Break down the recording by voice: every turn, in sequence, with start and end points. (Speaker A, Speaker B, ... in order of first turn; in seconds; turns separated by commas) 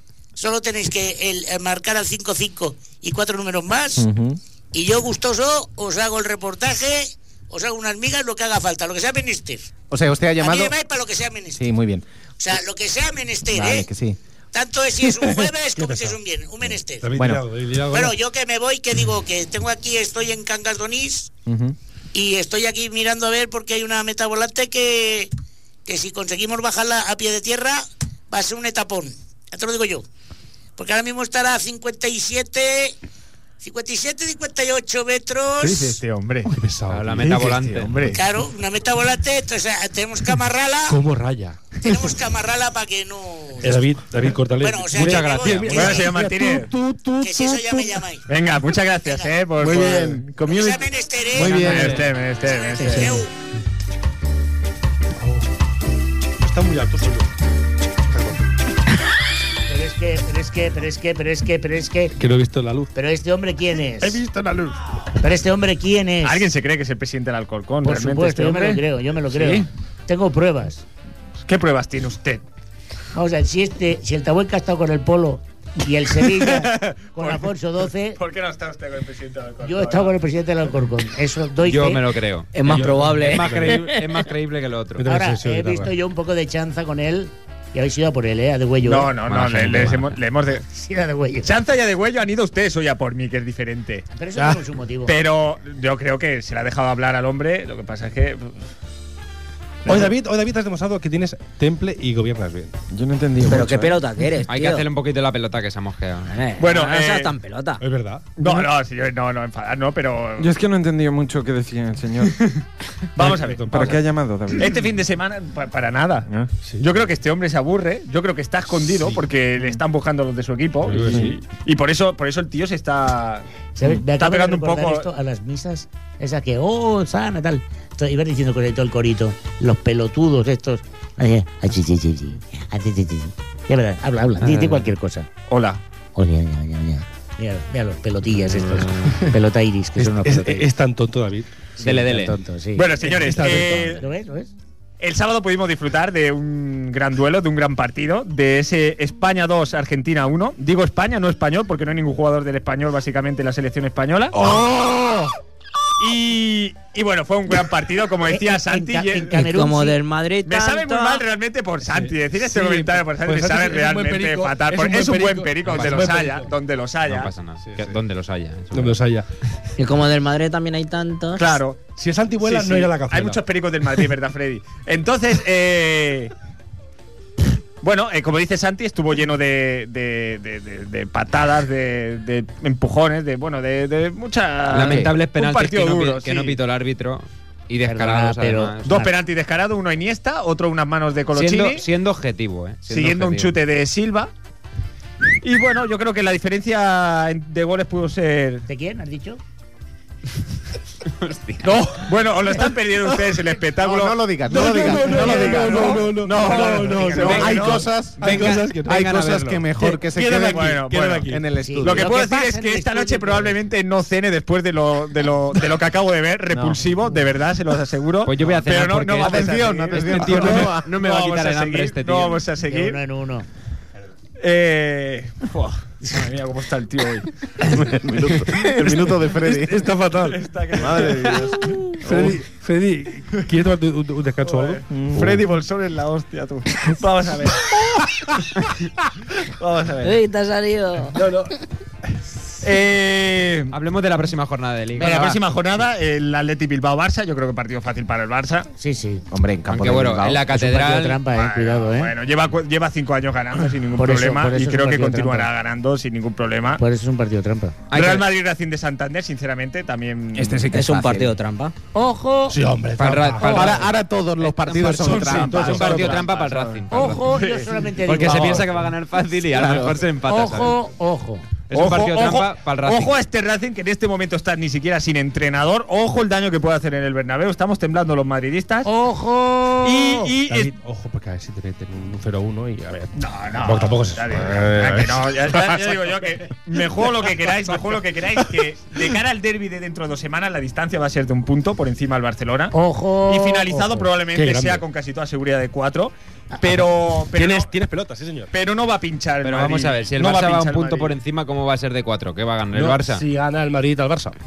Speaker A: 0.4-4.1, Speaker B: 4.0-4.4, Speaker A: 4.7-9.7, Speaker B: 9.9-10.8, Speaker A: 10.4-11.7, Speaker B: 11.6-12.1, Speaker A: 12.4-13.9, Speaker B: 13.5-14.2, Speaker A: 14.5-17.1, Speaker C: 15.8-16.2, Speaker C: 17.0-18.1, Speaker B: 17.1-17.5, Speaker A: 17.9-21.3, Speaker B: 21.5-21.8, Speaker A: 22.1-25.3, Speaker A: 25.9-30.1, Speaker A: 30.8-33.0, Speaker A: 33.6-35.9, Speaker D: 35.6-36.5, Speaker C: 36.5-38.1, Speaker E: 36.9-38.1, Speaker D: 37.2-38.2, Speaker A: 38.1-41.0, Speaker C: 40.9-41.8, Speaker A: 41.8-43.9, Speaker C: 43.6-47.6, Speaker A: 44.5-46.1, Speaker D: 45.0-46.7, Speaker A: 47.2-48.3, Speaker D: 48.3-50.5, Speaker A: 49.0-49.4, Speaker B: 49.6-50.8, Speaker A: 50.4-51.8, Speaker B: 51.3-52.0, Speaker D: 51.3-53.2, Speaker C: 51.7-52.1, Speaker A: 52.4-53.3, Speaker C: 52.9-53.2, Speaker C: 55.2-55.5, Speaker C: 56.4-57.3, Speaker C: 58.1-58.4, Speaker F: 59.7-62.1, Speaker C: 62.2-62.9, Speaker F: 63.0-64.2, Speaker C: 64.0-64.8, Speaker F: 65.2-66.5, Speaker D: 66.2-69.7, Speaker F: 67.8-70.8, Speaker D: 71.5-72.4, Speaker F: 73.1-78.2, Speaker D: 76.2-77.5, Speaker D: 78.2-80.1, Speaker F: 79.6-82.1, Speaker E: 81.6-85.0, Speaker G: 82.5-84.1, Speaker C: 82.6-83.9, Speaker C: 85.0-85.9, Speaker F: 85.1-89.1, Speaker D: 88.8-90.6, Speaker E: 89.3-90.2, Speaker F: 90.5-91.5, Speaker D: 91.4-94.1, Speaker F: 94.1-95.1, Speaker C: 94.4-94.6, Speaker D: 95.1-98.6, Speaker C: 99.8-102.8, Speaker D: 99.9-100.1, Speaker H: 102.9-104.0, Speaker G: 103.4-104.9, Speaker E: 104.5-106.3, Speaker G: 106.3-107.8, Speaker D: 106.6-107.3, Speaker C: 107.8-108.3, Speaker D: 108.4-110.5, Speaker H: 110.4-112.3, Speaker D: 113.2-114.0, Speaker C: 113.2-114.0, Speaker H: 113.7-114.7, Speaker D: 114.5-123.5, Speaker C: 120.8-121.4, Speaker F: 123.8-135.3, Speaker D: 124.1-125.1, Speaker E: 134.4-134.9, Speaker D: 135.5-135.8, Speaker F: 136.2-140.7, Speaker C: 140.0-141.5, Speaker F: 141.8-144.5, Speaker E: 141.8-142.4, Speaker D: 142.8-144.0, Speaker C: 143.1-144.0, Speaker D: 145.0-154.5, Speaker C: 154.3-155.3, Speaker D: 156.0-159.4, Speaker F: 158.3-160.0, Speaker G: 159.3-161.2, Speaker D: 160.4-167.3, Speaker C: 161.8-166.5, Speaker E: 165.7-166.2, Speaker E: 167.1-169.0, Speaker C: 167.7-167.9, Speaker C: 168.7-169.3, Speaker G: 169.8-171.4, Speaker D: 171.3-171.9, Speaker C: 172.0-173.4, Speaker D: 172.4-176.3, Speaker D: 177.8-186.6, Speaker E: 184.7-189.1, Speaker F: 187.9-189.1, Speaker D: 188.8-191.9, Speaker E: 191.3-193.6, Speaker D: 192.9-194.3, Speaker D: 195.4-198.7, Speaker F: 198.7-199.4, Speaker E: 201.2-201.9, Speaker C: 201.6-202.1, Speaker D: 201.9-207.9, Speaker B: 203.8-212.1, Speaker C: 204.5-209.1, Speaker F: 206.5-207.6, Speaker E: 208.2-209.7, Speaker C: 209.8-211.4, Speaker D: 210.4-211.3, Speaker F: 211.6-213.6, Speaker D: 211.8-223.0, Speaker B: 216.5-216.8, Speaker E: 218.2-222.5, Speaker B: 219.2-220.9, Speaker F: 222.7-223.5, Speaker D: 224.4-227.3, Speaker B: 227.7-229.9, Speaker C: 228.2-230.4, Speaker D: 230.2-232.3, Speaker B: 230.8-232.3, Speaker C: 231.9-234.8, Speaker D: 234.4-237.8, Speaker B: 234.9-235.4, Speaker D: 239.4-240.2, Speaker G: 240.0-241.2, Speaker C: 241.2-241.5, Speaker D: 242.6-243.7, Speaker E: 243.7-245.3, Speaker D: 245.0-248.7, Speaker B: 245.0-245.4, Speaker F: 248.8-249.2, Speaker B: 249.3-250.5, Speaker E: 249.7-251.2, Speaker F: 250.5-252.1, Speaker D: 251.3-256.8, Speaker F: 254.0-255.5, Speaker F: 256.8-257.8, Speaker E: 257.9-258.3, Speaker D: 257.9-260.7, Speaker B: 260.3-261.3, Speaker G: 260.7-261.7, Speaker F: 261.9-262.6, Speaker C: 262.5-263.9, Speaker E: 263.0-270.8, Speaker B: 263.5-266.3, Speaker C: 264.8-266.0, Speaker D: 265.0-268.7, Speaker F: 266.9-268.7, Speaker B: 269.5-270.0, Speaker F: 270.2-271.5, Speaker E: 271.7-273.2, Speaker D: 271.7-278.9, Speaker F: 278.9-280.3, Speaker D: 279.8-280.7, Speaker C: 280.4-285.9, Speaker D: 283.1-292.7, Speaker F: 292.7-294.1, Speaker D: 293.3-297.7, Speaker C: 294.3-294.8, Speaker C: 296.7-298.5, Speaker D: 298.5-301.1, Speaker E: 299.4-303.2, Speaker C: 302.7-304.4